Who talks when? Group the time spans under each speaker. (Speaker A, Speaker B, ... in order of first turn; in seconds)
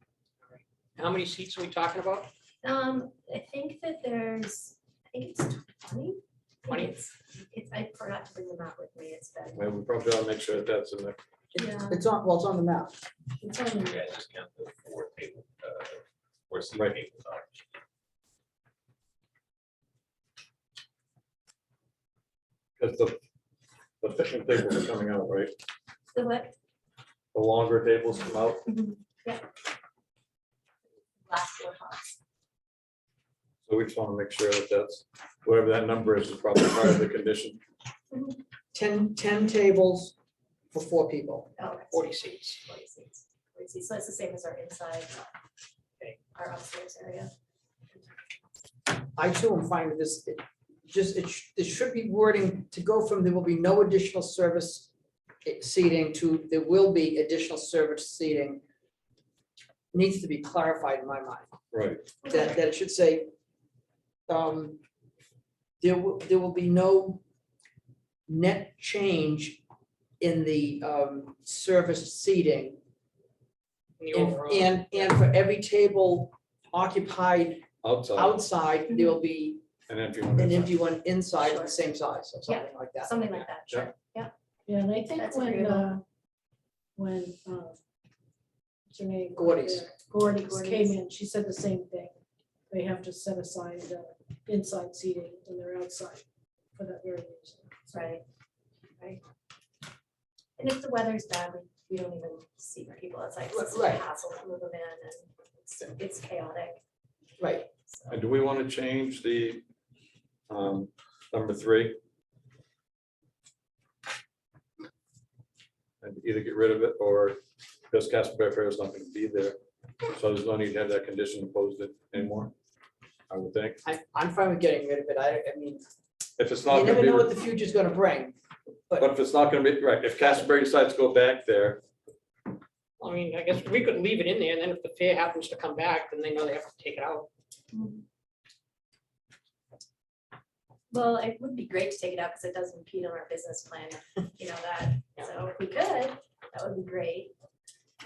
Speaker A: 0.5-2.3, 41.9-42.6, 74.0-75.2, 133.0-137.3
Speaker B: 2.6-9.7, 11.5-12.0, 26.1-26.5, 28.6-29.4, 31.2-32.1, 38.1-38.4, 41.6-45.3, 46.3-47.3, 47.9-48.4, 78.9-79.1, 81.4-81.8, 82.5-84.3, 85.1-85.9, 90.2-91.0, 97.9-98.2, 100.6-106.8, 107.9-108.2, 137.7-138.0, 140.9-147.3
Speaker C: 9.5-11.2, 22.8-23.2, 24.0-25.5, 27.3-28.6, 33.7-37.6, 61.7-62.0, 77.8-78.4, 79.9-80.7, 108.1-109.6, 110.5-112.0, 116.0-117.4, 117.9-119.6, 120.1-122.5, 123.3-123.8, 126.4-127.3, 129.0-131.8
Speaker D: 11.5-12.9, 38.7-40.1, 40.7-41.5, 49.1-54.9, 55.4-58.6, 59.9-61.5, 62.2-63.3, 64.3-64.8, 65.8-67.2, 68.3-69.6, 70.2-72.8, 74.1-79.6, 80.3-83.3, 89.3-89.9, 103.5-104.0, 107.4-107.7, 123.8-125.8, 126.7-128.3
Speaker E: 13.4-14.0, 84.7-86.0, 87.0-87.8, 88.9-92.1, 92.7-96.2, 96.8-98.1
Speaker F: 13.8-17.6